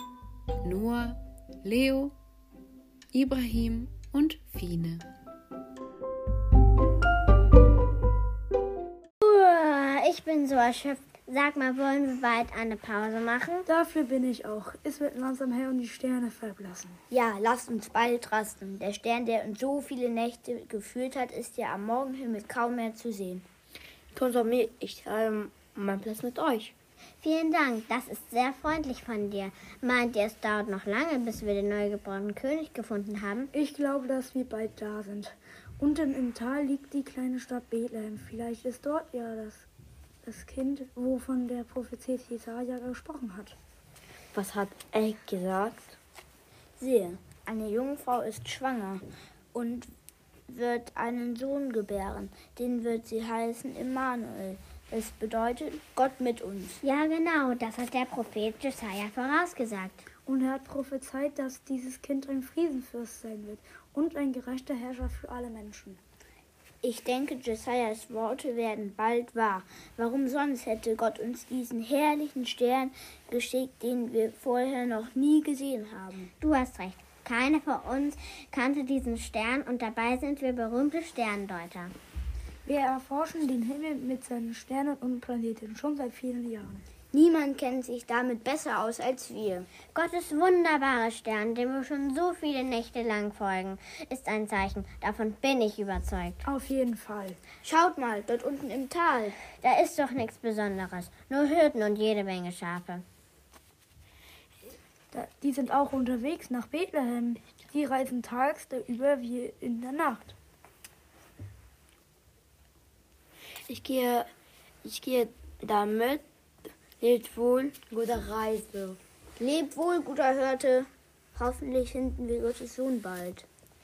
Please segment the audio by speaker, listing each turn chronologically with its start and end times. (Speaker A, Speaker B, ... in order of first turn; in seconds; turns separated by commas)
Speaker A: 0.6-2.1, Speaker A: 3.1-5.0, Speaker B: 9.2-13.6, Speaker C: 13.7-17.0, Speaker D: 17.1-23.4, Speaker E: 24.1-26.7, Speaker B: 27.2-33.5, Speaker C: 33.5-39.7, Speaker C: 40.2-43.5, Speaker E: 44.3-45.9, Speaker D: 46.8-49.9, Speaker D: 50.5-56.8, Speaker B: 56.8-60.0, Speaker C: 60.2-66.0, Speaker D: 66.8-76.3, Speaker B: 76.4-81.9, Speaker C: 82.6-86.8, Speaker D: 87.1-89.7, Speaker B: 89.9-96.4, Speaker C: 96.4-97.4, Speaker D: 97.6-99.4, Speaker B: 99.5-103.0, Speaker C: 105.1-110.3, Speaker E: 113.7-114.2, Speaker E: 114.8-116.2, Speaker E: 117.0-119.0, Speaker D: 119.4-123.5